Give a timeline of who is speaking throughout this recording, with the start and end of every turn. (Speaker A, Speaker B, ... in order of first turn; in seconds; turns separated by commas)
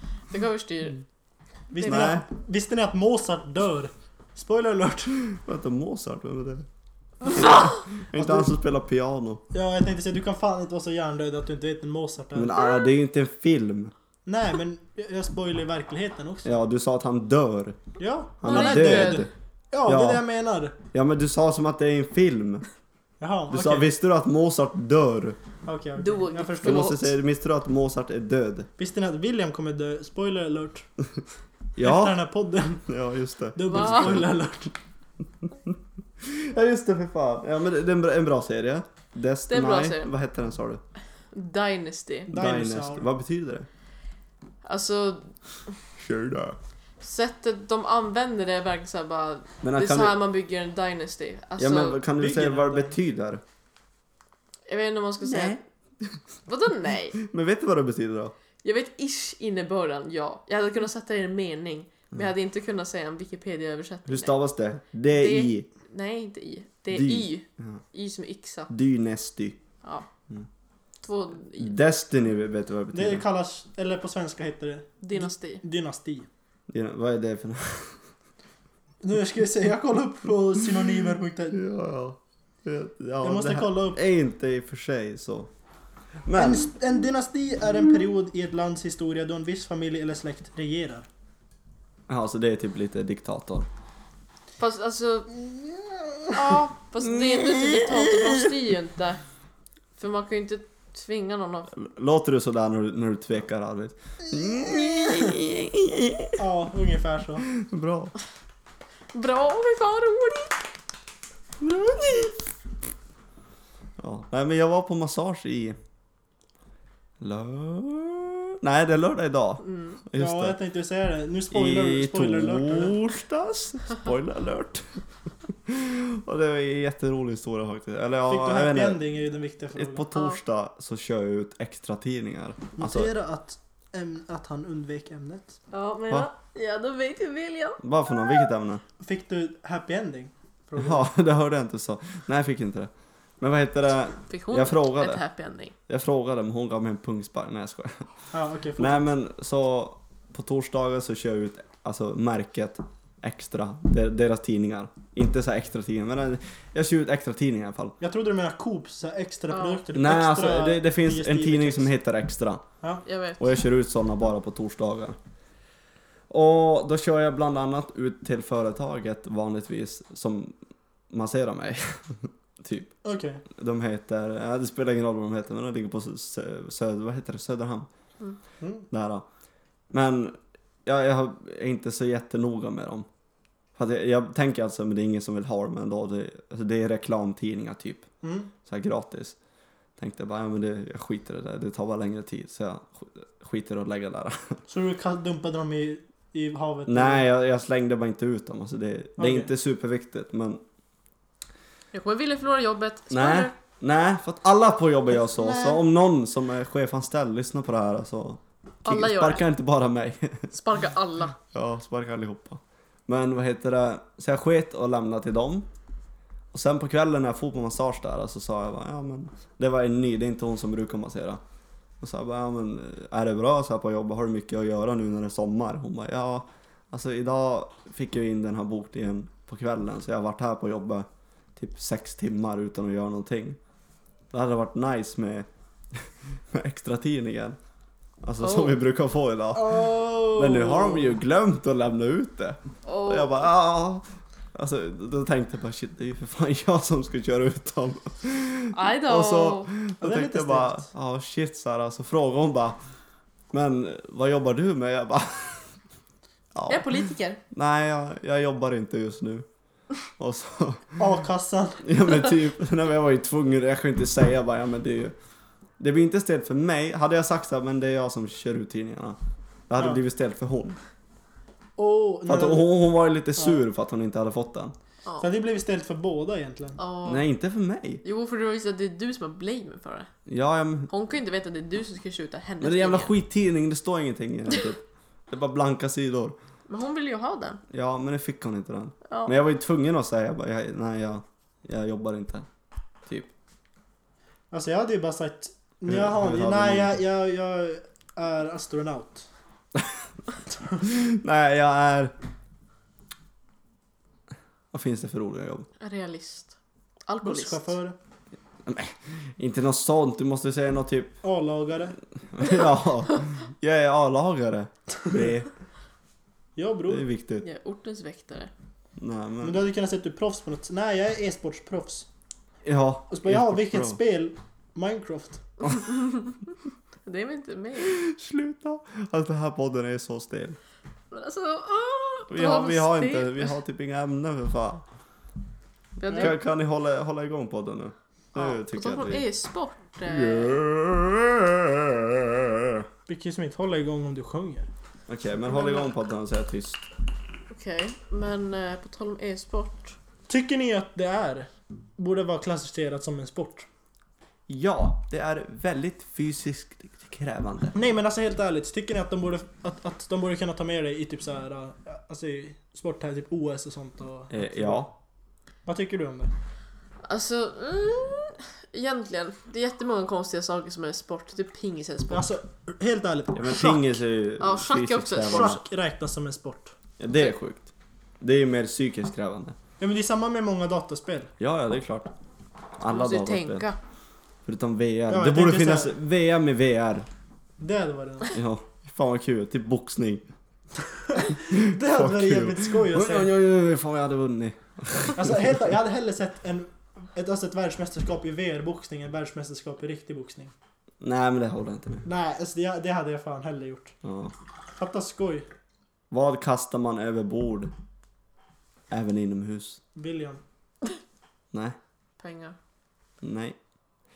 Speaker A: 0.3-1.0, Speaker B: 1.7-5.2, Speaker C: 1.8-2.2, Speaker C: 5.3-6.7, Speaker C: 7.2-9.4, Speaker B: 8.1-8.5, Speaker B: 9.5-12.6, Speaker C: 12.3-13.9, Speaker B: 14.3-16.5, Speaker C: 16.4-17.8, Speaker B: 18.0-20.8, Speaker C: 18.4-19.3, Speaker A: 18.4-19.3, Speaker C: 19.9-20.2, Speaker C: 20.9-22.6, Speaker B: 23.2-23.9, Speaker C: 23.5-25.4, Speaker B: 25.6-27.0, Speaker A: 26.0-27.1, Speaker C: 26.6-28.7, Speaker B: 28.8-30.9, Speaker C: 31.8-32.2, Speaker B: 31.8-32.9, Speaker C: 32.9-34.3, Speaker B: 33.6-34.7, Speaker A: 33.7-34.2, Speaker C: 35.7-40.8, Speaker A: 39.5-40.1, Speaker A: 41.3-42.3, Speaker B: 42.3-43.1, Speaker C: 42.3-43.7, Speaker A: 44.6-45.3, Speaker C: 46.0-46.6, Speaker A: 47.0-52.0, Speaker C: 49.6-50.2, Speaker C: 51.6-53.4, Speaker B: 52.2-53.0, Speaker A: 54.7-55.6, Speaker C: 55.2-56.2, Speaker A: 56.5-57.2, Speaker C: 57.2-58.3, Speaker A: 58.6-64.3, Speaker C: 64.1-65.7, Speaker A: 65.1-68.7, Speaker C: 66.9-67.8, Speaker C: 68.7-69.6, Speaker A: 71.0-71.8, Speaker C: 71.6-73.2, Speaker B: 72.9-76.3, Speaker A: 75.0-75.6, Speaker C: 76.7-78.0, Speaker B: 79.0-81.6, Speaker C: 81.5-85.5, Speaker B: 83.2-84.0, Speaker C: 86.3-86.7, Speaker B: 86.3-91.1, Speaker C: 92.1-93.7, Speaker A: 94.6-95.3, Speaker B: 96.0-96.3, Speaker A: 96.3-99.2, Speaker C: 97.0-98.5, Speaker A: 100.0-101.7, Speaker C: 101.7-106.4, Speaker B: 106.4-107.5, Speaker C: 107.5-108.1, Speaker A: 109.1-110.6, Speaker C: 111.6-112.4, Speaker C: 114.0-115.8, Speaker C: 117.2-120.6, Speaker A: 119.6-120.0, Speaker B: 120.2-123.0, Speaker C: 121.5-125.0, Speaker C: 125.7-129.0, Speaker B: 128.3-130.1, Speaker C: 129.8-133.1, Speaker B: 132.8-135.6, Speaker A: 135.7-138.5, Speaker C: 137.8-138.8, Speaker B: 139.0-141.1, Speaker C: 140.8-145.2, Speaker A: 144.3-145.8, Speaker C: 145.9-148.1, Speaker B: 148.3-149.1, Speaker C: 148.8-157.9, Speaker B: 158.0-161.9, Speaker A: 159.5-159.8, Speaker C: 159.9-162.6, Speaker A: 163.1-163.6, Speaker C: 163.4-165.2, Speaker C: 166.3-170.6, Speaker C: 171.1-172.9, Speaker B: 173.0-173.4, Speaker C: 173.5-177.9, Speaker B: 178.6-178.9, Speaker C: 178.9-179.2, Speaker C: 179.9-183.1, Speaker C: 183.8-188.1, Speaker B: 188.2-188.5, Speaker C: 188.7-189.4, Speaker C: 190.0-194.6, Speaker B: 194.7-197.2, Speaker C: 196.9-200.6, Speaker B: 199.2-199.5, Speaker A: 201.9-203.5, Speaker C: 203.1-210.5, Speaker B: 205.1-205.8, Speaker A: 208.8-209.5, Speaker A: 210.5-211.4, Speaker C: 211.5-215.7, Speaker C: 216.5-221.4, Speaker C: 222.0-233.6, Speaker C: 234.3-237.6, Speaker C: 238.2-252.8, Speaker A: 238.4-238.8, Speaker B: 239.5-241.2, Speaker A: 242.8-243.5, Speaker A: 248.7-249.7, Speaker B: 250.0-250.9, Speaker C: 253.5-255.7, Speaker C: 256.6-259.5, Speaker A: 256.7-257.4, Speaker C: 260.2-261.1, Speaker B: 261.0-261.9, Speaker C: 261.8-265.1, Speaker C: 265.8-269.2, Speaker C: 269.7-270.8, Speaker B: 269.8-270.0, Speaker B: 271.8-272.8, Speaker C: 272.3-274.7, Speaker B: 275.2-276.8, Speaker A: 276.8-277.2, Speaker C: 277.1-278.0, Speaker A: 278.0-280.1, Speaker C: 280.3-280.9, Speaker A: 280.9-283.1, Speaker C: 282.6-286.4, Speaker A: 286.7-287.6, Speaker C: 287.7-292.5, Speaker A: 289.1-289.3, Speaker C: 293.1-293.3, Speaker B: 294.5-299.3, Speaker C: 295.9-297.0, Speaker C: 299.8-300.0, Speaker C: 300.8-302.1, Speaker C: 304.7-305.7, Speaker A: 305.8-306.6, Speaker A: 307.1-307.7, Speaker B: 307.2-308.0, Speaker C: 308.6-311.2, Speaker B: 311.2-312.0, Speaker C: 312.3-315.5, Speaker B: 316.6-317.0, Speaker C: 316.9-317.4, Speaker A: 317.4-318.5, Speaker C: 319.0-319.6, Speaker B: 319.4-322.1, Speaker C: 322.6-324.0, Speaker B: 323.1-325.4, Speaker A: 325.8-326.4, Speaker A: 327.1-328.0, Speaker C: 327.8-330.6, Speaker A: 331.1-333.6, Speaker C: 332.3-334.8, Speaker A: 336.0-336.4, Speaker B: 336.1-336.3, Speaker C: 336.1-339.2, Speaker A: 338.4-340.6, Speaker C: 340.0-342.9, Speaker B: 343.1-344.7, Speaker C: 345.1-346.8, Speaker A: 345.5-345.9, Speaker A: 347.5-350.0, Speaker B: 350.3-353.7, Speaker C: 354.5-357.8, Speaker B: 357.7-364.9, Speaker C: 364.3-364.9, Speaker B: 365.7-366.3, Speaker A: 367.0-372.3, Speaker B: 372.1-374.0, Speaker C: 373.3-375.6, Speaker A: 374.4-375.6, Speaker B: 375.2-376.7, Speaker C: 377.0-377.7, Speaker C: 378.2-379.6, Speaker B: 379.8-381.3, Speaker C: 381.4-382.1, Speaker C: 382.8-383.7, Speaker A: 382.9-383.8, Speaker C: 384.4-387.1, Speaker B: 385.1-385.9, Speaker B: 387.6-388.3, Speaker C: 388.3-390.3, Speaker B: 391.1-393.3, Speaker C: 391.5-395.6, Speaker B: 395.1-400.5, Speaker C: 401.0-402.1, Speaker B: 402.1-403.9, Speaker C: 404.0-404.3, Speaker B: 404.8-405.5, Speaker C: 406.1-407.7, Speaker C: 408.9-409.8, Speaker B: 409.9-410.4, Speaker C: 411.5-411.8, Speaker A: 412.2-412.6, Speaker C: 413.2-413.6